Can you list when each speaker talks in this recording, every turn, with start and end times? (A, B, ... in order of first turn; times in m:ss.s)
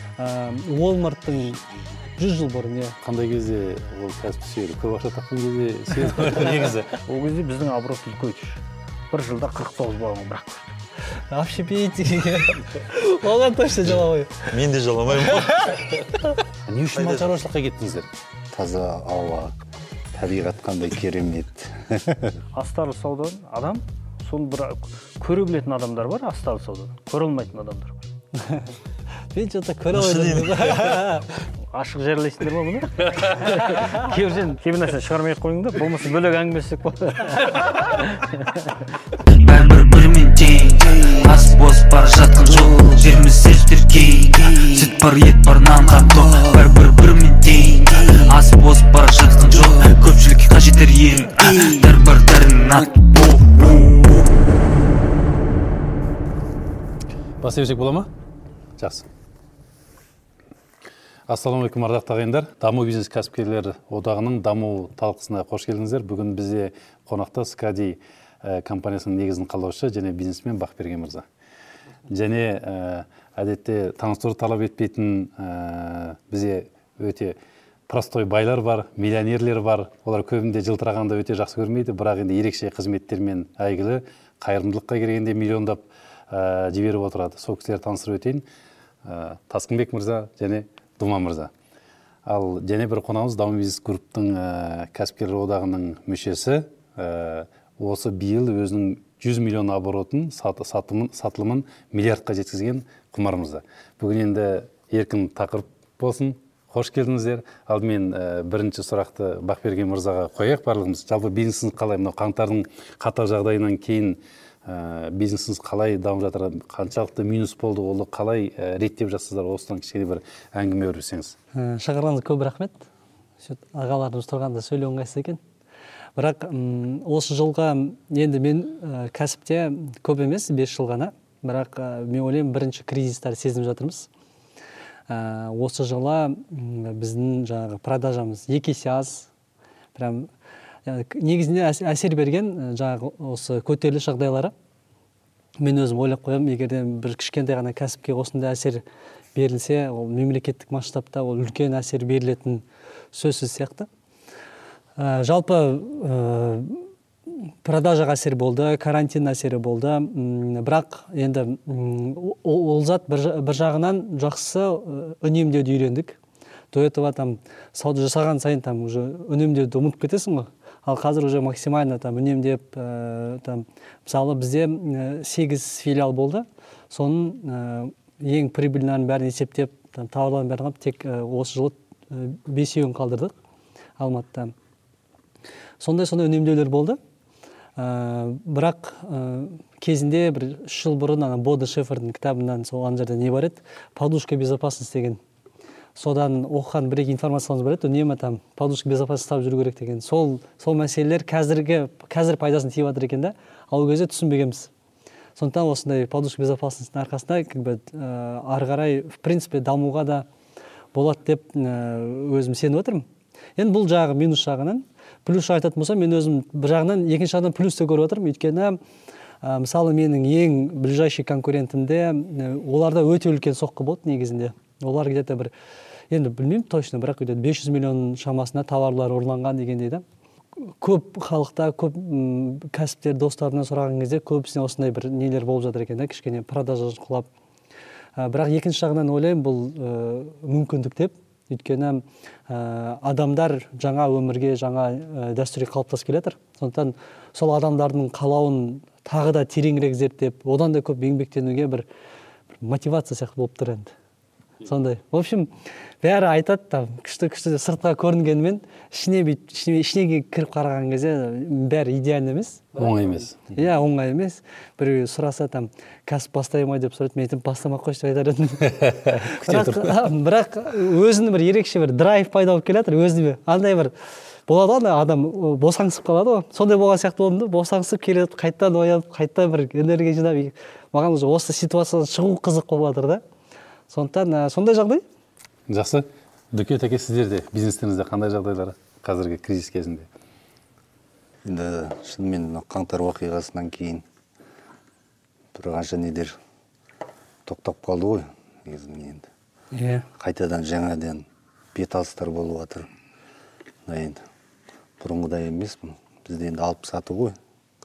0:00.2-0:03.0 A
0:03.0-0:06.9 B
0:07.0-0:10.8 C
0:11.3-0:14.6 A
0:14.5-0:15.7 D
0:15.2-0:16.4 A
0:16.7-0:18.1 B
0:16.9-0:17.4 D
0:18.5-0:19.6 E
0:20.1-0:22.4 E
0:22.5-0:28.1 C
0:28.4-0:28.6 A
0:29.3-0:31.3 A
0:29.9-0:31.2 D
0:31.7-0:38.8 C
0:39.3-0:54.1 F
0:57.4-0:58.1 B
0:58.8-0:59.1 B
1:01.3-1:11.2 B
1:12.1-1:17.4 B
1:17.9-1:28.4 B
1:29.0-1:31.5 B
1:32.2-2:01.3 B
2:01.5-2:02.9 A
2:03.4-2:05.4 A
2:06.2-2:14.1 A
2:15.1-2:19.3 A
2:20.0-2:20.3 A
2:20.9-2:24.5 A
2:25.6-2:28.8 A
2:29.3-2:33.9 A
2:35.0-2:46.2 A
2:46.7-3:03.3 A
3:04.0-3:04.5 A
3:05.8-3:07.0 A
3:07.8-3:15.2 A
3:16.0-3:24.7 A
3:25.4-3:30.3 A
3:30.9-3:38.8 A
3:39.4-3:45.5 A
3:46.1-3:50.0 A
3:50.6-3:57.3 A
3:58.2-4:11.8 A
4:12.6-4:13.9 A
4:14.6-4:22.8 A
4:22.8-4:23.6 B
4:23.5-4:33.9 A
4:28.8-4:30.0 B
4:34.5-4:43.2 A
4:43.9-4:45.0 A
4:45.7-4:50.1 B
4:51.4-4:54.0 E
4:55.5-4:56.4 E
4:57.4-4:59.3 E
4:59.7-5:00.1 A
5:00.2-5:02.9 E
5:03.8-5:04.2 E
5:05.0-5:07.4 E